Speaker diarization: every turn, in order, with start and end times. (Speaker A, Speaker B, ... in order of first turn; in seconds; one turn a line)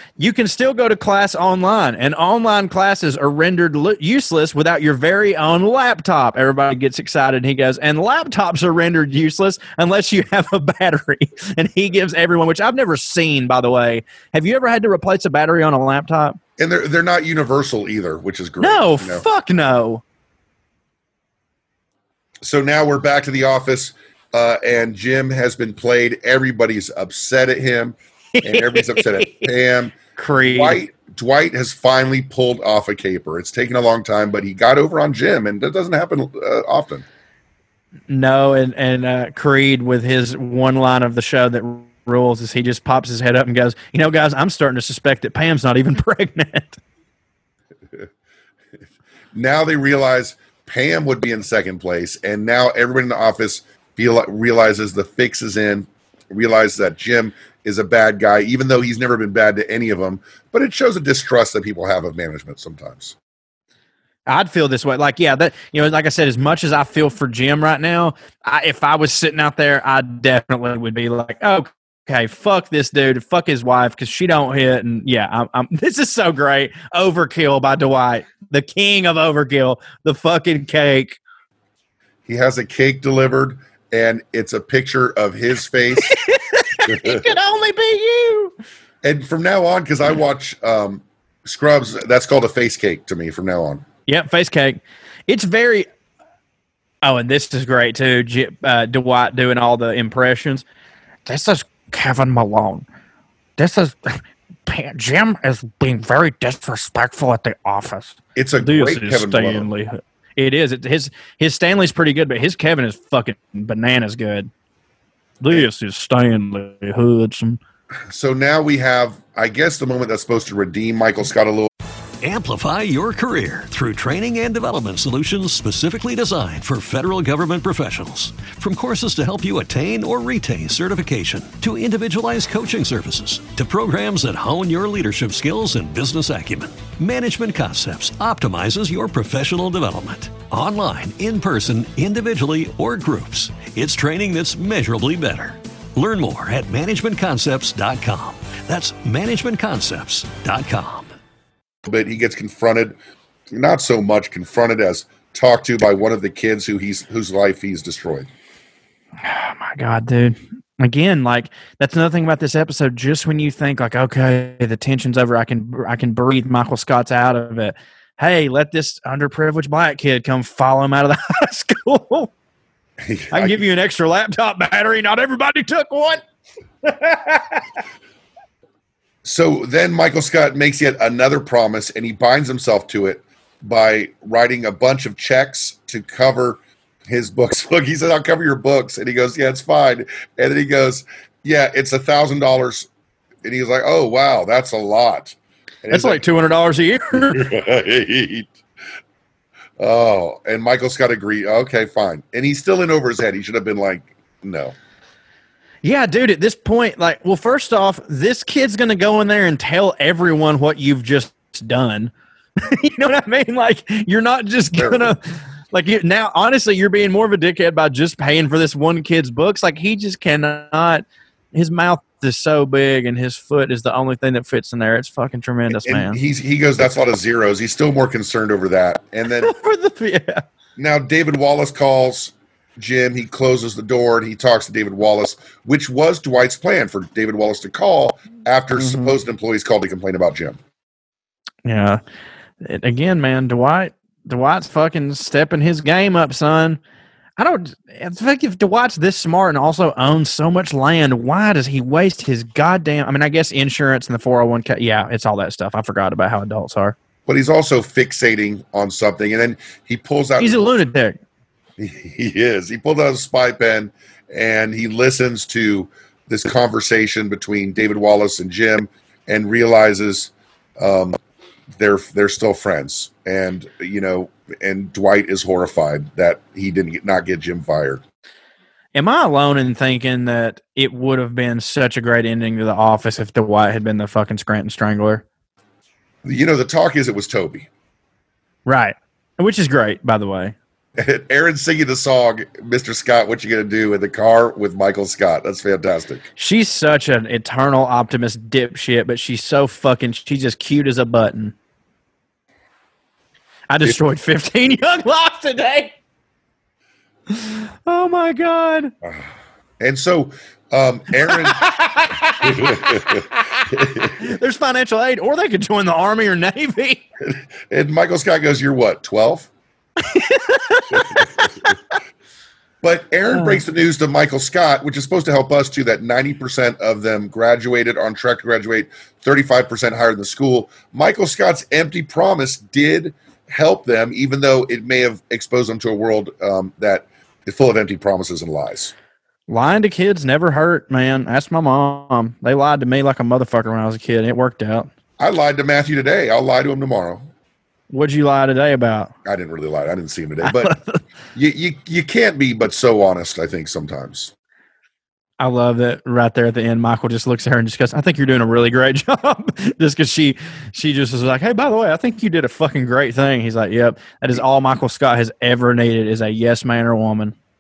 Speaker A: 0.2-16.4
Speaker B: 16.6-19.3
Speaker A: 18.6-20.0
Speaker B: 22.4-37.0
Speaker A: 28.4-29.5
Speaker A: 30.2-30.8
Speaker A: 38.1-46.8
Speaker B: 49.3-63.2
Speaker A: 64.3-81.2
Speaker B: 82.3-86.2
Speaker A: 86.0-88.5
Speaker B: 86.9-87.3
Speaker B: 89.0-93.8
Speaker A: 94.1-95.9
Speaker A: 97.0-100.7
Speaker A: 101.3-102.8
Speaker A: 103.6-114.5
Speaker B: 108.4-109.7
Speaker A: 115.4-117.6
Speaker B: 118.1-121.7
Speaker C: 122.2-151.1
Speaker B: 151.8-153.0
Speaker B: 153.5-158.3
Speaker A: 159.2-172.3
Speaker B: 173.0-173.6
Speaker A: 173.3-176.2
Speaker A: 176.8-177.6
Speaker B: 179.2-192.9
Speaker B: 193.4-196.2
Speaker A: 195.9-197.5
Speaker B: 197.1-198.6
Speaker B: 199.8-204.8
Speaker A: 205.8-215.2
Speaker B: 214.8-215.2
Speaker A: 215.7-226.2
Speaker B: 225.7-229.6
Speaker A: 229.4-230.4
Speaker B: 230.8-240.6
Speaker A: 238.8-239.2
Speaker A: 241.7-242.0
Speaker A: 242.6-246.8
Speaker A: 247.4-256.9
Speaker B: 257.3-260.8
Speaker A: 260.4-261.2
Speaker B: 261.8-271.2
Speaker B: 271.8-278.0
Speaker A: 278.9-285.2
Speaker B: 286.2-287.7
Speaker A: 288.7-290.6
Speaker B: 291.0-296.3
Speaker A: 296.4-301.6
Speaker A: 303.7-305.9
Speaker A: 307.3-308.9
Speaker B: 309.0-311.7
Speaker A: 311.3-317.0
Speaker B: 312.4-314.2
Speaker B: 317.2-319.5
Speaker A: 320.1-321.8
Speaker B: 320.9-321.4
Speaker B: 322.8-338.9
Speaker A: 339.5-344.9
Speaker B: 345.2-347.3
Speaker A: 347.9-349.1
Speaker B: 349.2-350.8
Speaker A: 350.4-351.0
Speaker B: 351.3-354.3
Speaker A: 355.4-367.4